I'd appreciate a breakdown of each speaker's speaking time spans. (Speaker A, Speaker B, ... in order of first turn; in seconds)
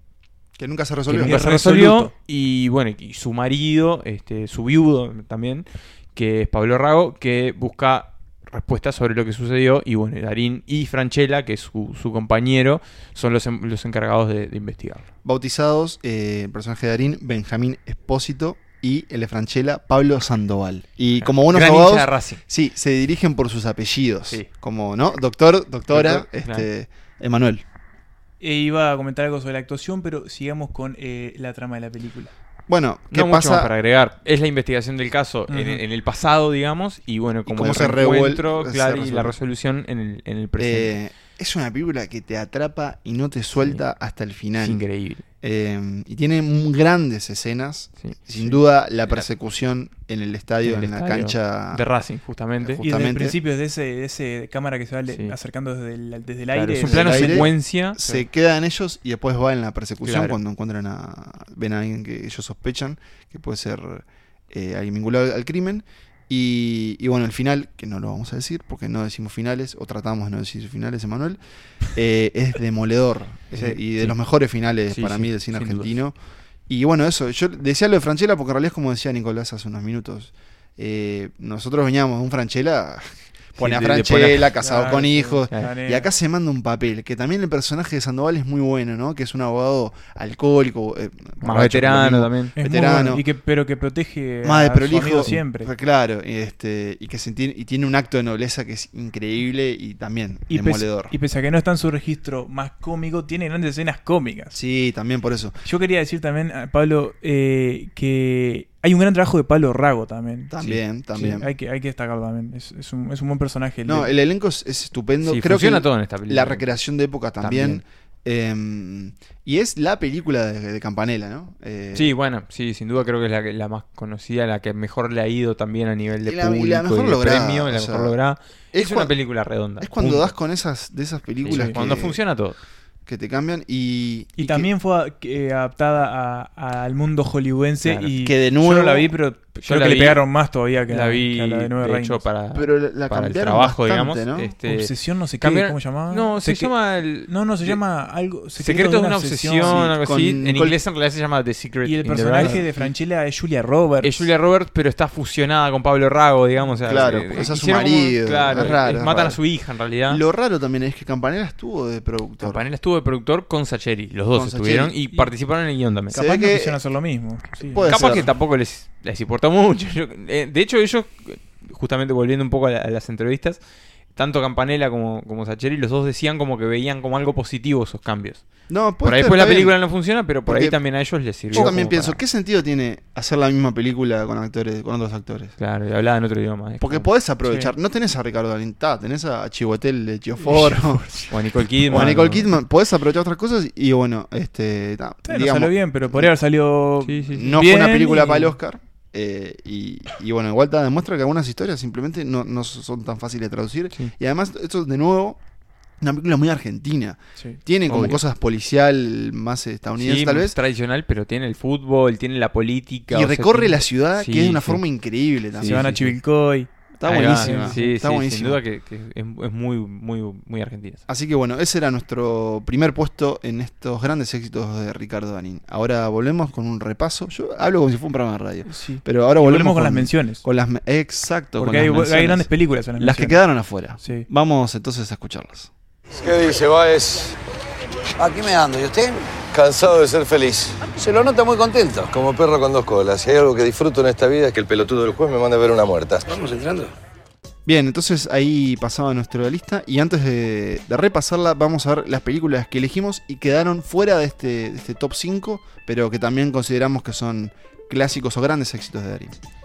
Speaker A: 0.6-1.4, 15.2-27.6, 32.7-33.7, 37.5-39.3, 40.6-44.8, 45.4-51.8, 52.6-53.4, 56.8-71.4, 72.0-76.2, 76.7-93.2, 94.4-101.2, 104.5-105.6, 110.5-111.5, 113.9-122.2, 126.2-128.2, 128.7-129.1, 129.8-132.2, 133.1-134.7, 138.2-139.1, 142.5-144.5, 149.7-150.8, 152.3-152.9, 156.8-159.4, 160.1-162.6, 164.3-164.9, 166.1-166.8, 167.6-168.3, 178.7-179.8, 180.5-180.8, 181.5-185.6, 186.8-191.1, 191.9-196.3, 197.3-205.4, 206.0-210.6, 213.1-216.0, 217.0-218.6, 221.1-235.7, 247.7-259.4
Speaker B: 1.1-2.1, 28.4-32.3, 35.5-35.8, 52.8-57.5, 84.6-86.1, 92.6-95.7, 100.5-104.6, 105.6-114.1, 131.5-131.8, 134.4-142.2, 144.7-146.7, 147.3-149.9, 151.8-154.3, 166.1-168.2, 181.5-181.9, 187.4-187.7, 190.4-191.3, 191.9-192.1, 195.2-198.6, 215.6-216.7, 217.2-217.8, 228.7-230.4, 231.6-233.4, 234.0-234.3
Speaker C: 1.2-15.1, 21.2-22.4, 25.9-26.7, 33.1-41.0, 44.6-45.2, 48.0-48.5, 50.6-52.8, 56.5-58.0, 60.0-60.4, 73.6-74.1, 74.9-76.0, 83.6-84.5, 91.4-92.5, 115.2-116.7, 117.4-117.8, 122.0-130.3, 131.4-132.6, 137.8-138.1, 139.6-140.2, 140.9-147.8, 148.6-152.6, 154.0-160.2, 162.4-166.2, 167.8-173.6, 174.2-178.4, 179.0-182.2, 185.6-187.1, 191.3-192.5, 197.1-197.5, 207.9-208.2, 210.0-214.8, 215.6-216.1, 217.1-221.0
Speaker D: 236.1-237.4, 239.5-240.8, 242.1-246.3
Speaker E: 238.2-239.3, 240.9-242.1, 246.3-246.9